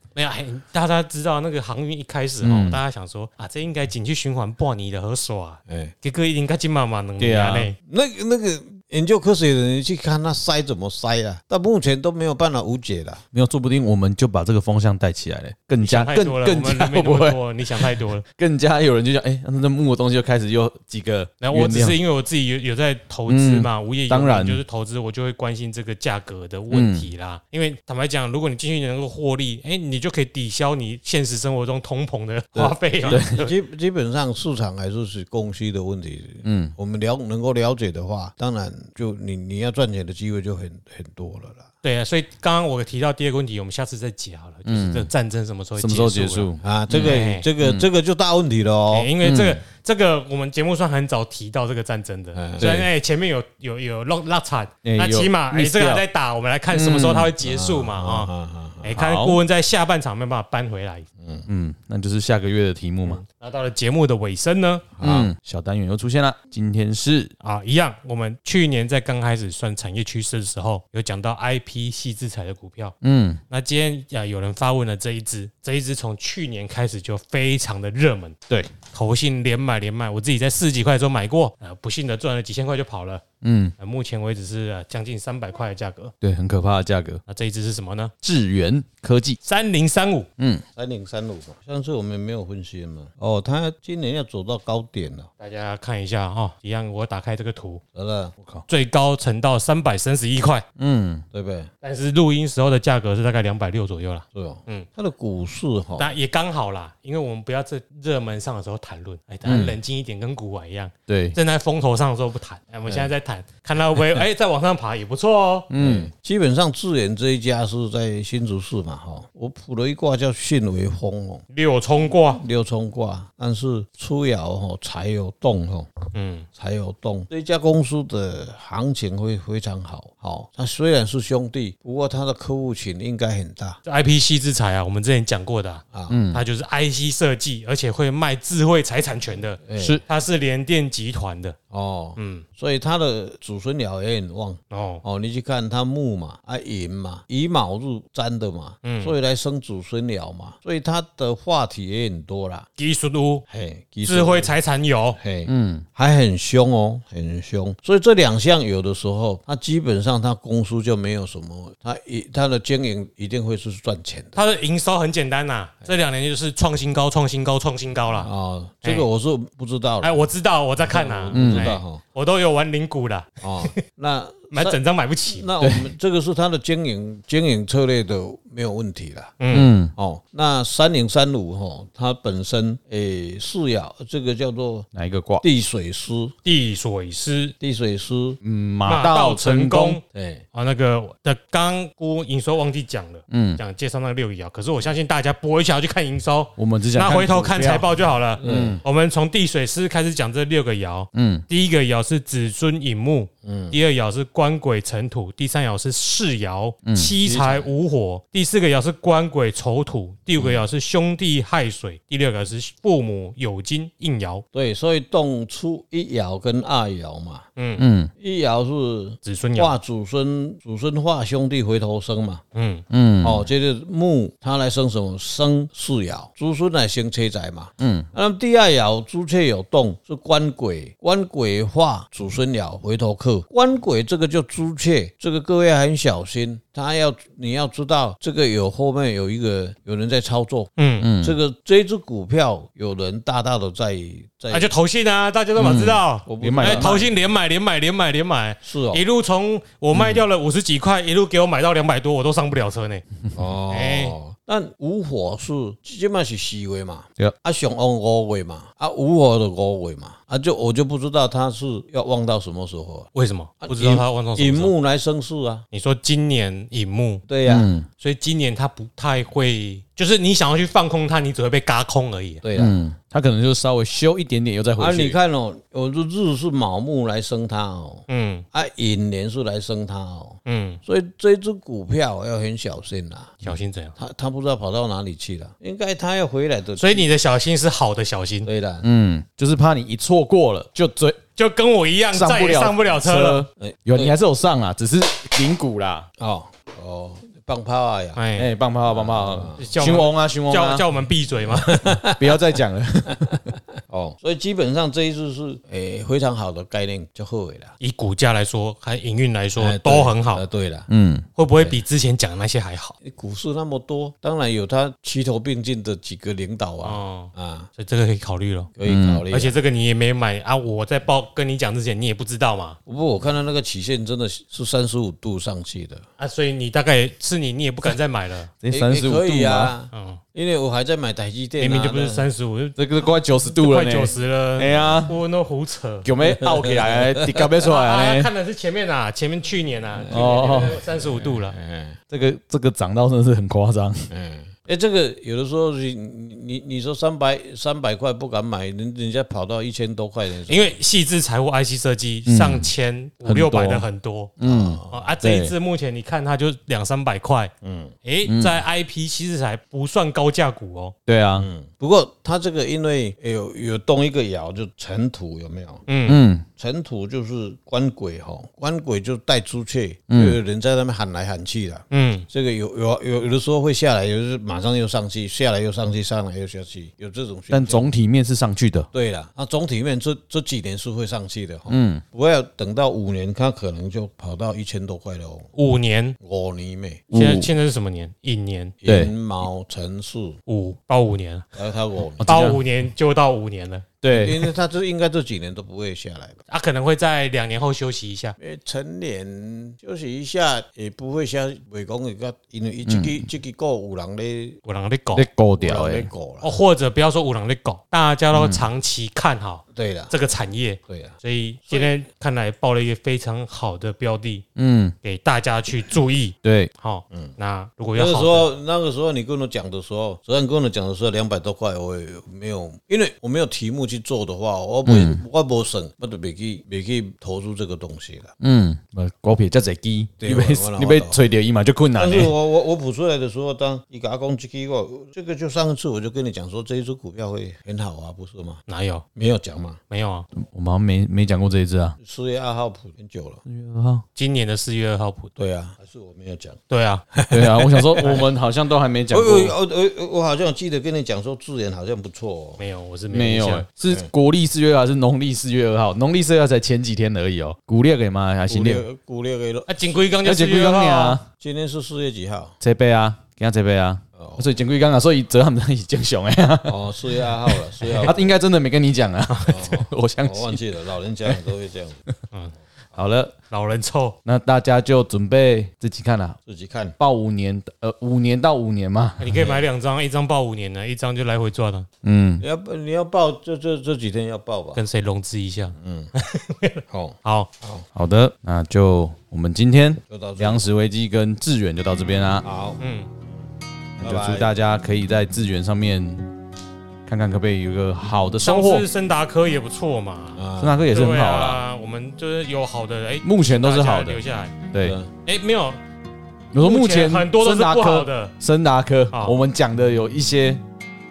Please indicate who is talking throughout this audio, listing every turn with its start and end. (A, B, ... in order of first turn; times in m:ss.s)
0:00.2-0:07.8 A
0:02.4-0:02.8 B
0:05.7-0:05.9 C
0:07.2-0:07.7 B
0:07.9-0:13.2 C
0:13.3-0:22.0 B
0:15.8-0:18.2 A
0:21.4-0:33.6 A
0:23.3-0:24.6 B
0:26.7-0:27.1 B
0:32.6-0:33.3 B
0:33.0-0:41.7 C
0:36.4-0:36.8 B
0:41.8-0:47.5 A
0:44.7-0:45.1 B
0:45.8-0:47.1 B
0:46.6-0:49.1 C
0:47.6-0:47.9 B
0:48.9-0:58.3 A
0:49.2-0:49.6 B
0:52.4-0:52.9 C
0:54.8-0:56.0 B
0:56.7-0:57.3 B
0:57.4-0:58.9 C
0:58.8-1:01.1 A
0:58.9-0:59.4 B
1:01.2-1:01.5 C
1:01.5-1:03.2 B
1:03.0-1:04.8 A
1:05.0-1:05.3 C
1:05.0-1:07.3 B
1:07.4-1:13.0 A
1:13.0-1:13.4 B
1:13.5-1:18.4 A
1:18.9-1:23.2 A
1:23.4-1:23.7 B
1:23.8-1:26.1 A
1:26.2-1:27.2 B
1:27.3-1:28.1 A
1:28.2-1:29.4 B
1:29.4-1:30.3 A
1:30.4-1:30.6 B
1:30.8-1:35.3 C
1:35.4-1:37.8 A
1:38.0-1:38.4 C
1:38.7-1:40.6 A
1:40.8-1:41.2 B
1:41.3-1:41.7 C
1:41.8-1:44.9 A
1:44.3-1:46.1 C
1:46.0-1:55.7 A
1:49.4-1:49.8 B
1:51.1-1:51.4 B
1:55.7-1:56.1 B
1:55.8-2:01.4 C
2:01.5-2:02.4 A
2:02.3-2:05.9 C
2:06.1-2:06.5 A
2:06.6-2:13.8 C
2:13.8-2:21.6 A
2:15.9-2:16.2 C
2:16.1-2:16.4 B
2:19.7-2:20.0 C
2:19.8-2:20.0 B
2:21.7-2:32.7 C
2:22.2-2:22.4 A
2:24.7-2:25.0 A
2:28.8-2:29.2 A
2:32.8-2:33.4 A
2:33.5-2:34.5 C
2:34.0-2:35.2 A
2:35.2-2:44.4 C
2:35.5-2:35.8 B
2:44.4-2:48.3 A
2:48.2-2:50.3 C
2:50.0-2:53.8 A
2:50.8-2:52.0 C
2:51.3-2:51.8 B
2:53.4-2:59.4 C
2:54.5-2:55.5 A
2:55.6-2:55.9 B
2:59.4-2:59.7 A
2:59.5-2:59.9 B
3:00.0-3:04.9 C
3:04.9-3:05.4 B
3:05.4-3:06.3 C
3:06.4-3:07.6 A
3:07.6-3:08.4 C
3:08.4-3:10.0 B
3:08.9-3:10.0 A
3:10.1-3:10.4 C
3:10.5-3:34.4 A
3:13.3-3:13.6 B
3:16.6-3:17.9 B
3:18.4-3:18.8 B
3:18.4-3:18.8 C
3:21.1-3:21.4 B
3:23.4-3:23.8 C
3:26.8-3:27.5 B
3:27.3-3:27.6 C
3:34.5-3:37.5 C
3:37.6-3:37.8 A
3:37.8-3:38.1 B
3:38.2-3:42.4 C
3:39.2-3:39.7 A
3:42.5-3:42.8 A
3:42.9-3:43.5 B
3:43.2-4:04.7 C
3:47.8-3:48.1 B
4:00.8-4:01.1 A
4:01.0-4:01.4 B
4:04.5-4:13.0 A
4:05.6-4:07.1 B
4:06.3-4:06.9 C
4:08.6-4:09.0 C
4:13.4-4:23.1 C
4:13.7-4:14.2 A
4:23.1-4:24.7 A
4:23.6-4:25.6 C
4:25.7-4:27.2 A
4:27.3-4:27.7 C
4:27.5-4:27.9 B
4:28.0-4:32.4 A
4:32.4-4:32.8 C
4:32.6-4:35.2 B
4:34.8-4:43.4 C
4:38.1-4:38.4 A
4:40.4-4:40.8 A
4:43.4-4:44.0 A
4:44.0-4:47.1 C
4:46.8-4:48.5 A
4:48.4-4:48.8 C
4:48.8-4:51.2 B
4:51.4-4:53.4 A
4:52.1-4:56.1 B
4:53.6-4:54.1 C
4:56.2-4:58.2 C
4:58.2-4:58.5 A
4:58.4-5:00.8 B
4:58.9-4:59.7 C
4:59.6-5:01.9 A
5:01.5-5:02.4 C
5:02.0-5:03.5 B
5:03.1-5:07.7 C
5:07.8-5:10.4 A
5:09.6-5:10.9 C
5:10.9-5:11.3 B
5:11.4-5:13.0 A
5:13.0-5:17.7 C
5:16.8-5:18.7 A
5:18.8-5:19.6 C
5:18.8-5:19.2 B
5:19.3-5:22.8 A
5:22.9-5:26.0 C
5:26.2-5:28.5 A
5:28.6-5:29.7 B
5:28.7-5:32.3 C
5:29.9-5:30.2 A
5:31.6-5:32.8 A
5:32.8-5:35.1 B
5:33.4-5:36.1 A
5:36.0-5:38.3 B
5:36.2-5:37.4 C
5:37.6-5:41.6 A
5:40.0-5:42.0 C
5:40.1-5:40.8 B
5:42.1-5:44.1 B
5:44.1-5:50.8 C
5:50.5-5:54.3 A
5:52.3-5:52.7 B
5:53.2-5:53.9 B
5:54.4-5:55.6 B
5:54.4-5:55.1 C
5:54.9-5:57.5 A
5:57.6-5:57.9 C
5:58.0-6:01.0 A
5:58.2-5:58.6 B
6:01.1-6:01.5 B
6:01.4-6:05.9 C
6:05.9-6:06.2 A
6:06.1-6:06.5 B
6:06.6-6:17.9 C
6:10.1-6:10.4 B
6:11.9-6:12.3 A
6:17.5-6:18.9 B
6:18.9-6:25.5 C
6:21.7-6:22.0 B
6:25.5-6:26.2 A
6:26.2-6:27.1 C
6:27.1-6:27.5 B
6:27.1-6:28.8 A
6:28.8-6:30.4 C
6:28.8-6:29.1 B
6:30.5-6:31.5 A
6:31.6-6:32.5 C
6:32.2-6:32.6 B
6:32.3-6:33.9 A
6:34.0-6:34.5 B
6:34.1-6:36.4 C
6:36.5-6:38.4 A
6:38.4-6:44.6 C
6:42.9-6:43.3 B
6:44.6-6:45.3 A
6:45.1-6:46.1 B
6:45.6-6:46.6 C
6:46.4-6:54.4 A
6:48.3-6:48.6 B
6:49.7-6:50.1 C
6:50.9-6:51.2 C
6:54.6-6:55.0 B
6:55.0-6:58.5 A
6:56.4-6:56.7 B
6:58.0-7:08.3 C
7:04.9-7:05.2 B
7:08.4-7:12.3 B
7:10.2-7:11.2 C
7:12.0-7:18.6 C
7:18.7-7:19.0 A
7:19.2-7:19.8 C
7:19.9-7:20.3 A
7:20.4-7:22.0 B
7:22.0-7:23.4 C
7:23.5-7:24.0 B
7:24.2-7:25.3 A
7:25.4-7:26.6 C
7:26.7-7:27.0 A
7:27.1-7:28.2 C
7:27.3-7:29.6 B
7:29.1-7:32.6 C
7:32.6-7:33.7 A
7:33.1-7:38.8 B
7:38.5-7:40.0 C
7:39.7-7:41.2 A
7:40.2-7:41.3 B
7:41.4-7:42.6 C
7:42.6-7:50.7 B
7:44.2-7:44.5 C
7:46.6-7:48.3 C
7:49.3-7:49.6 A
7:49.5-7:52.0 C
7:53.0-7:53.3 B
7:53.5-7:54.2 A
7:54.2-7:56.4 B
7:56.5-7:57.0 C
7:57.0-7:59.2 B
7:59.2-8:01.9 A
7:59.3-7:59.6 C
8:02.0-8:02.4 B
8:02.4-8:04.8 C
8:04.8-8:07.5 A
8:05.8-8:06.1 C
8:06.9-8:07.9 C
8:08.0-8:12.4 B
8:10.1-8:10.7 C
8:12.4-8:12.8 C
8:12.8-8:13.1 A
8:14.0-8:14.5 C
8:14.0-8:16.3 B
8:17.1-8:18.9 B
8:18.4-8:24.6 A
8:20.4-8:20.8 C
8:20.6-8:21.6 B
8:23.2-8:24.2 B
8:24.7-8:25.0 B
8:24.8-8:25.1 C
8:25.2-8:25.8 A
8:26.5-8:30.6 B
8:26.6-8:28.3 A